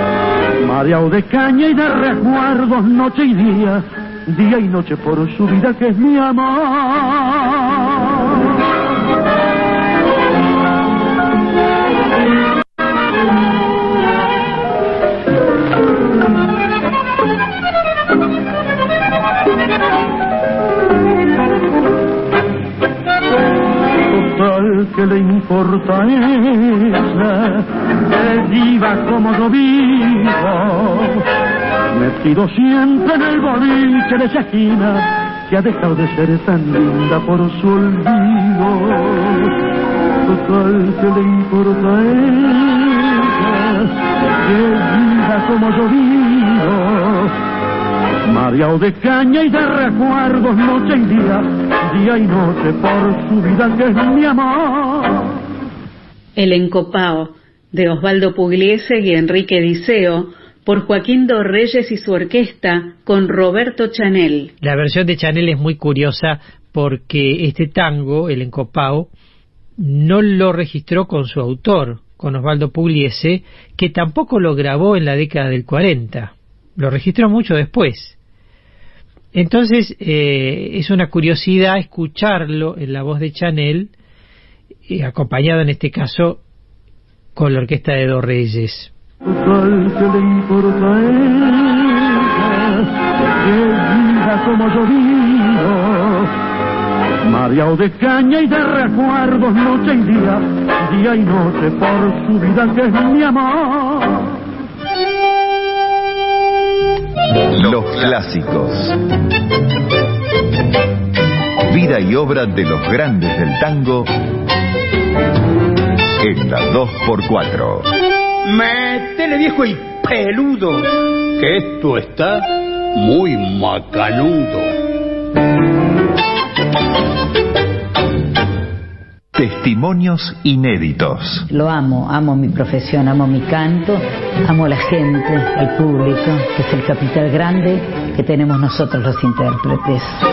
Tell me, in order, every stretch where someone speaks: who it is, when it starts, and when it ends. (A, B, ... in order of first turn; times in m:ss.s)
0:00.6-0:08.4 A
0:24.1-0:31.2 A
0:31.9-0:39.5 A
0:40.2-0:47.3 A
0:48.3-0:55.4 A
0:56.4-1:04.5 B
1:04.6-1:09.1 C
1:09.8-1:18.2 C
1:19.3-1:23.9 C
1:24.9-1:26.4 C
1:27.4-1:28.9 C
1:29.2-1:32.9 A
1:33.4-1:36.3 A
1:37.2-1:44.4 A
1:47.5-1:49.0 D
1:51.7-1:54.1 D
1:56.2-1:57.9 D
1:58.4-2:04.7 E
2:09.3-2:11.5 D
2:11.5-2:20.2 F